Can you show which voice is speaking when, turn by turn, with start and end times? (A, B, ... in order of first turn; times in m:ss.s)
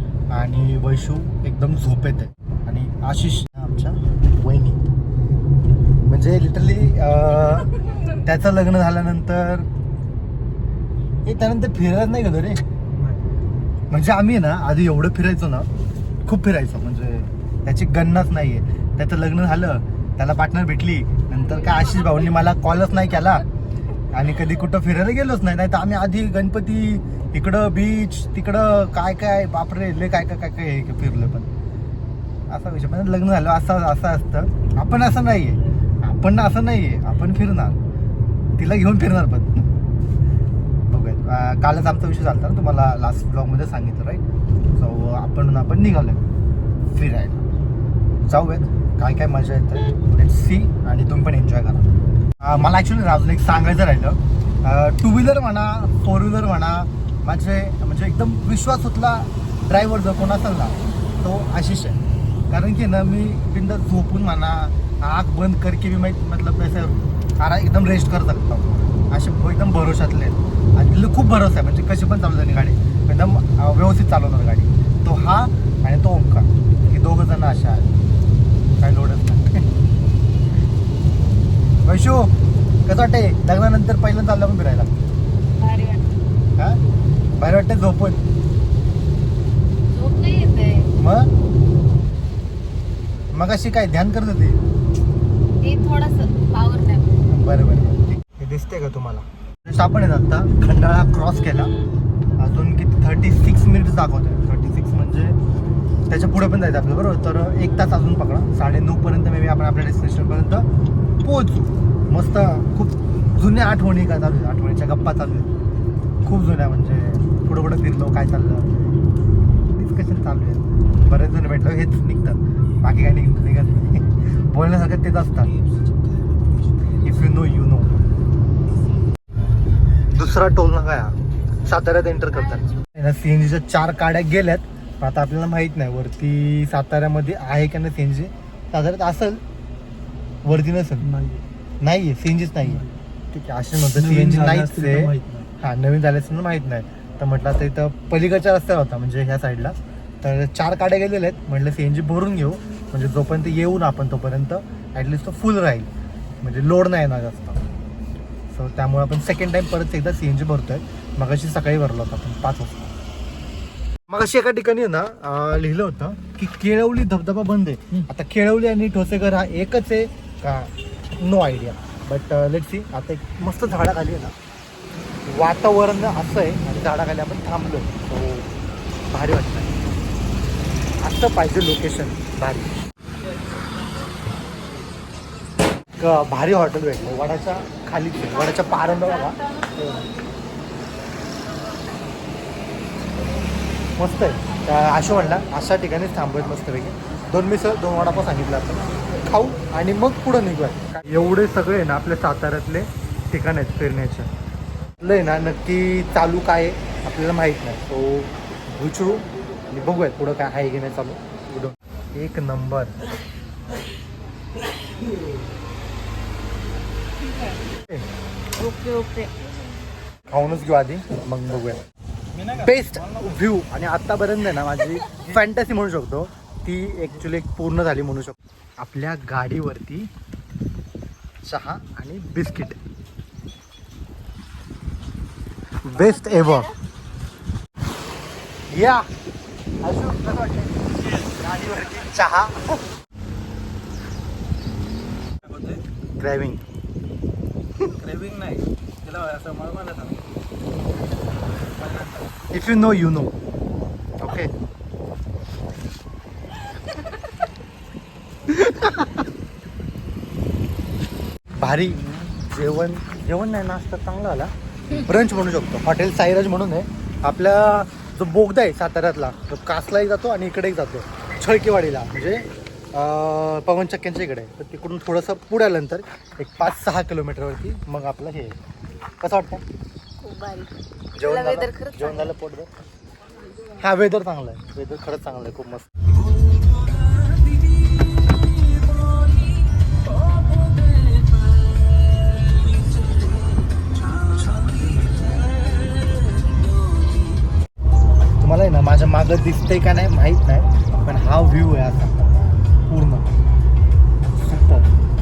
0:00.3-0:04.8 A
0:06.1-0:07.7 A
0:08.2-0:09.7 A
0:11.3-0:12.6 A
0:13.9-0:15.7 A
0:16.2-0:23.4 A
0:24.1-0:31.5 A
0:32.5-0:37.8 A
0:38.6-0:39.7 A
0:40.9-0:44.2 A
0:44.8-0:46.2 A
0:46.9-0:47.4 A
0:48.3-0:51.9 A
0:52.4-1:02.0 A
1:02.5-1:17.9 A
1:18.8-1:19.6 A
1:21.8-1:22.3 A
1:22.8-1:24.9 A
1:25.6-1:26.1 B
1:27.4-1:28.2 A
1:29.9-1:30.9 B
1:31.0-1:31.3 A
1:33.3-1:34.6 A
1:35.6-1:37.2 B
1:37.3-1:41.7 A
1:42.4-1:45.4 A
1:46.1-1:50.7 A
1:51.2-1:55.5 A
1:56.2-1:58.7 A
1:59.7-2:05.5 A
2:07.0-2:08.0 A
2:10.1-2:11.2 A
2:11.7-2:19.4 A
2:12.3-2:12.8 B
2:20.4-2:21.1 A
2:21.0-2:21.4 C
2:21.8-2:35.9 A
2:22.7-2:22.9 C
2:23.9-2:25.5 C
2:36.4-2:37.6 A
2:38.5-2:42.9 A
2:44.1-2:54.3 A
2:55.3-2:58.5 A
2:59.1-2:59.8 A
3:01.0-3:02.7 A
3:06.0-3:10.1 A
3:08.3-3:09.7 B
3:14.0-3:24.3 A
3:25.0-3:33.0 A
3:38.6-3:39.3 B
3:40.3-3:41.8 A
3:42.3-3:43.3 C
3:42.5-3:50.1 A
3:51.4-3:52.8 A
3:55.8-3:56.7 A
3:55.9-3:56.7 B
3:58.7-3:59.1 A
3:59.8-4:02.8 A
4:05.4-4:05.8 C
4:06.2-4:06.6 A
4:08.0-4:10.2 C
4:11.8-4:12.3 C
4:12.5-4:13.3 A
4:14.2-4:14.5 A
4:18.5-4:19.1 A
4:21.6-4:38.6 A
4:39.2-4:39.6 A
4:40.2-4:42.3 B
4:41.2-4:42.7 A
4:43.8-4:45.9 A
4:58.4-5:02.3 A
5:02.9-5:03.3 A
5:04.4-5:04.9 A